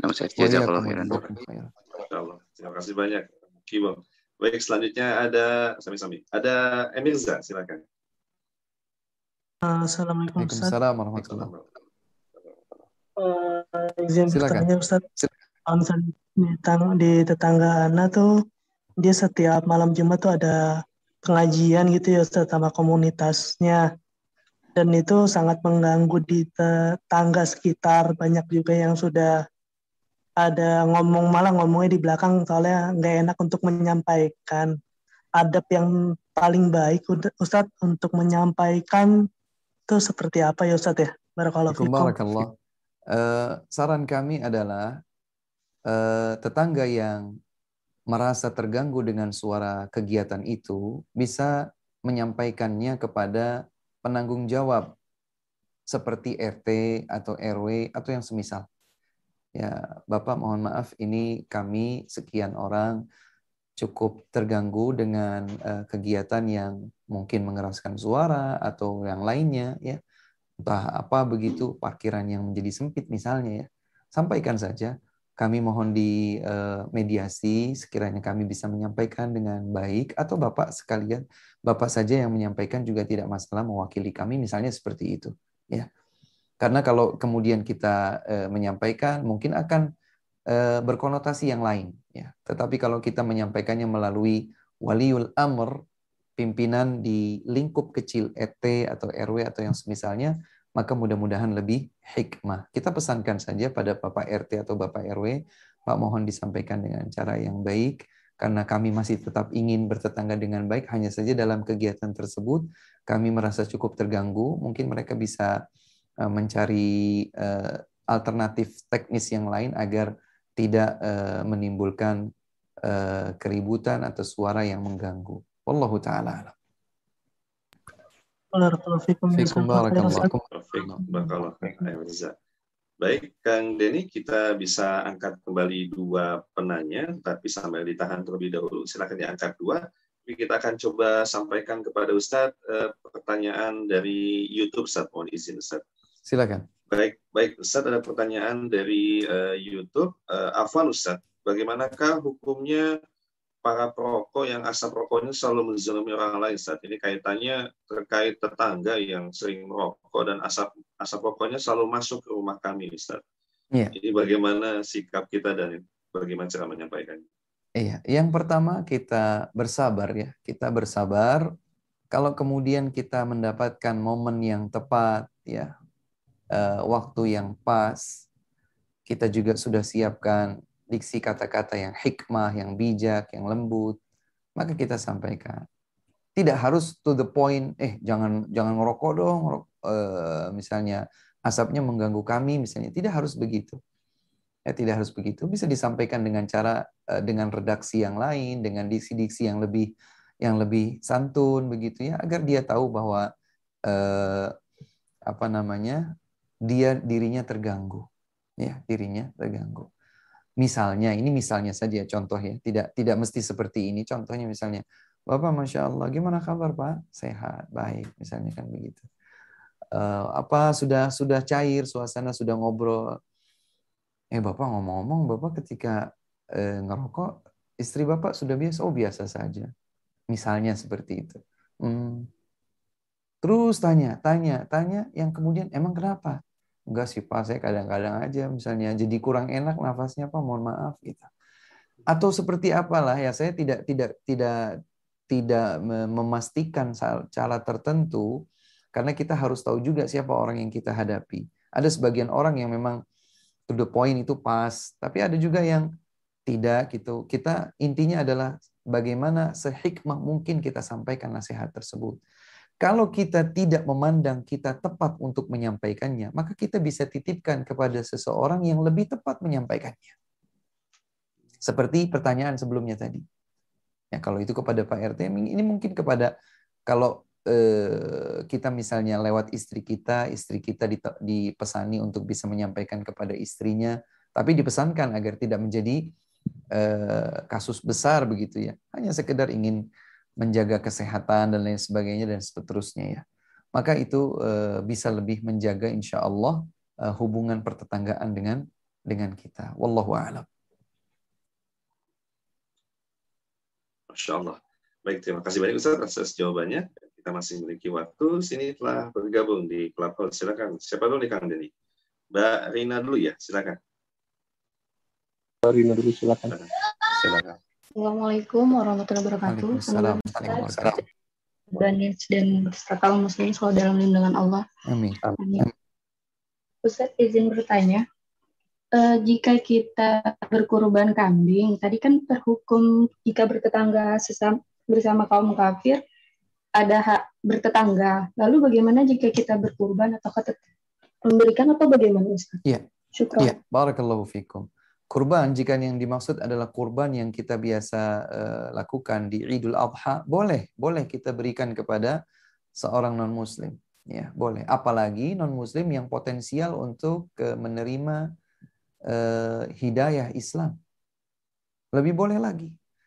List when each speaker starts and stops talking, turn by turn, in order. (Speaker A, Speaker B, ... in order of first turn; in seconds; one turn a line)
Speaker A: 0.1-1.2
Speaker B: 0.3-1.7
Speaker C: 1.9-7.8
Speaker D: 9.7-10.7
Speaker B: 10.4-11.5
Speaker C: 11.2-11.7
Speaker C: 12.4-12.8
Speaker D: 13.2-15.0
Speaker B: 14.3-15.3
Speaker D: 15.7-18.3
Speaker D: 19.0-20.6
Speaker D: 21.2-23.8
Speaker D: 24.8-29.3
Speaker D: 30.4-34.7
Speaker D: 35.4-39.1
Speaker D: 39.9-42.1
Speaker B: 41.7-42.5
Speaker B: 43.1-45.0
Speaker B: 45.9-47.3
Speaker B: 48.1-54.9
Speaker B: 55.9-58.7
Speaker B: 59.5-63.0
Speaker B: 63.8-70.0
Speaker B: 70.6-85.9
Speaker B: 86.6-89.9
Speaker B: 90.5-95.8
Speaker B: 96.4-115.5
Speaker B: 116.2-122.2
Speaker B: 122.8-126.5
Speaker D: 128.6-130.3
Speaker B: 129.3-131.0
Speaker C: 130.5-132.3
Speaker C: 133.0-145.8
Speaker B: 146.3-146.7
Speaker C: 146.9-152.9
Speaker C: 153.6-163.2
Speaker C: 163.9-167.2
Speaker B: 167.8-171.5
Speaker B: 172.1-175.7
Speaker B: 176.5-178.0
Speaker B: 179.1-183.9
Speaker B: 184.6-185.6
Speaker B: 186.4-193.8
Speaker B: 194.7-203.3
Speaker B: 203.9-204.5
Speaker B: 205.3-206.1
Speaker B: 206.7-208.1
Speaker B: 208.6-209.9
Speaker B: 210.6-219.1
Speaker B: 219.9-223.2
Speaker B: 224.3-229.7
Speaker B: 230.3-232.3
Speaker B: 233.4-236.4
Speaker B: 236.9-241.3
Speaker B: 242.1-244.6
Speaker B: 245.3-248.3
Speaker B: 248.9-253.0
Speaker B: 253.7-255.9
Speaker B: 256.5-262.2
Speaker B: 262.8-270.1
Speaker B: 271.6-273.2
Speaker B: 274.1-276.3
Speaker B: 276.9-286.1
Speaker B: 286.7-289.8
Speaker B: 290.4-293.2
Speaker B: 293.7-300.5
Speaker C: 304.1-311.7
Speaker C: 312.3-313.8
Speaker A: 315.6-316.6
Speaker E: 317.9-321.0
Speaker B: 319.4-321.0
Speaker E: 321.7-324.6
Speaker B: 324.9-325.2
Speaker E: 325.3-325.7
Speaker E: 326.8-328.0
Speaker E: 328.9-336.0
Speaker E: 336.8-340.6
Speaker E: 341.2-342.6
Speaker E: 343.1-343.6
Speaker B: 343.4-352.2
Speaker B: 352.8-358.2
Speaker B: 359.1-360.8
Speaker B: 361.9-362.7